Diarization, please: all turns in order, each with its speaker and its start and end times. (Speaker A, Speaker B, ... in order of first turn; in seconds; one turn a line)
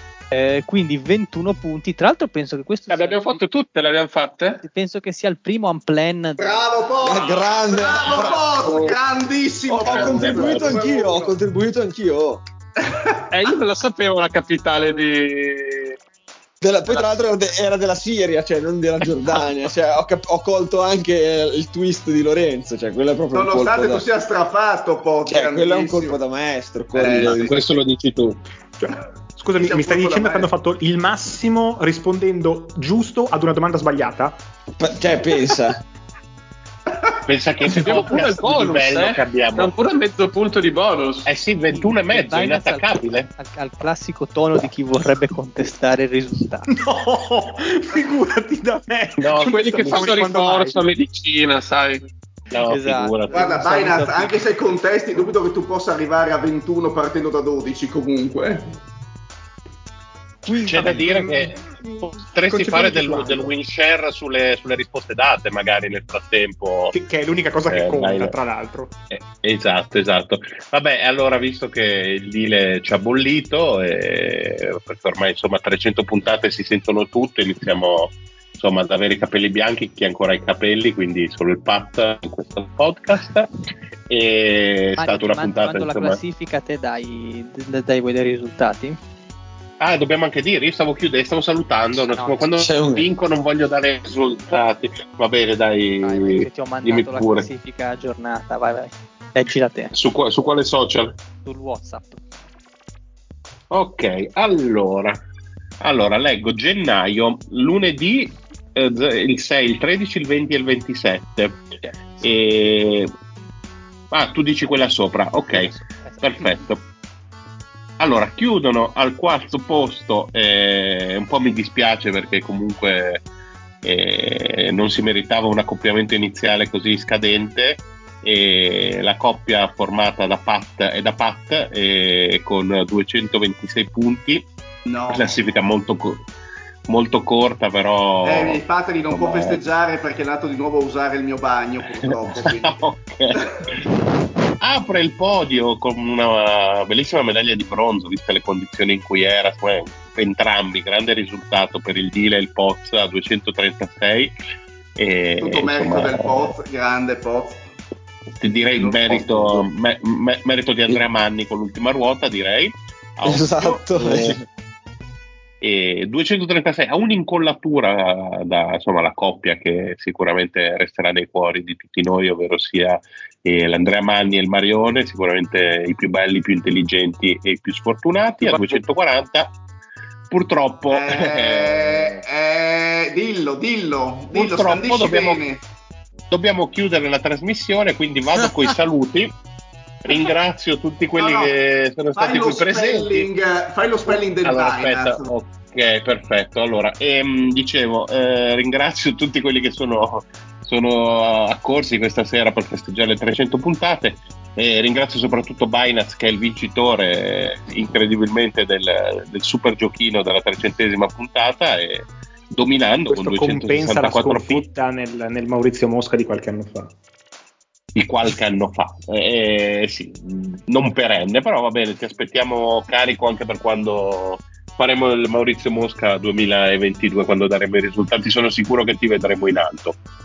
Speaker A: 0.3-3.4
Speaker B: 2.9-4.6
Speaker A: 4.6-6.7
Speaker C: 6.4-11.4
Speaker D: 7.0-8.4
Speaker B: 8.1-8.9
Speaker D: 9.7-12.4
Speaker E: 9.8-10.8
Speaker C: 12.8-13.1
Speaker B: 13.3-16.0
Speaker D: 16.6-24.0
Speaker C: 23.3-26.2
Speaker D: 25.3-27.5
Speaker C: 26.9-27.4
Speaker E: 27.1-28.4
Speaker F: 28.8-34.4
Speaker C: 29.5-30.5
Speaker D: 34.8-35.8
Speaker E: 37.3-39.7
Speaker B: 37.6-41.3
Speaker E: 41.2-43.3
Speaker A: 41.7-46.7
Speaker F: 46.7-50.8
Speaker E: 49.2-50.3
Speaker B: 49.3-52.1
Speaker E: 52.5-53.4
Speaker A: 52.6-54.4
Speaker C: 53.3-58.6
Speaker F: 60.5-61.7
Speaker E: 60.6-66.9
Speaker F: 62.5-63.5
Speaker F: 66.9-68.9
Speaker E: 67.7-68.3
Speaker E: 69.1-83.5
Speaker E: 84.1-86.2
Speaker A: 85.0-89.0
Speaker E: 89.8-97.5
Speaker A: 92.1-92.4
Speaker D: 92.6-93.1
Speaker A: 96.0-99.9
Speaker E: 99.9-101.1
Speaker A: 101.4-102.2
Speaker E: 103.7-105.2
Speaker E: 105.8-111.6
Speaker A: 111.8-112.2
Speaker E: 112.2-113.1
Speaker E: 114.1-116.8
Speaker A: 115.5-116.6
Speaker E: 118.0-123.2
Speaker E: 123.8-134.5
Speaker C: 134.8-135.4
Speaker E: 135.1-136.2
Speaker E: 136.9-138.6
Speaker C: 138.2-142.8
Speaker E: 139.1-139.6
Speaker E: 142.2-143.4
Speaker E: 144.6-154.3
Speaker E: 154.9-156.5
Speaker C: 155.4-157.7
Speaker E: 158.4-164.4
Speaker C: 158.6-159.7
Speaker D: 163.2-164.4
Speaker E: 165.6-179.5
Speaker B: 178.4-178.8
Speaker E: 180.3-182.2
Speaker C: 180.9-185.6
Speaker E: 184.3-185.4
Speaker E: 186.3-189.3
Speaker E: 190.0-193.3
Speaker C: 191.2-191.6
Speaker C: 192.1-195.3
Speaker E: 194.1-214.7
Speaker F: 213.1-216.9
Speaker E: 217.9-230.0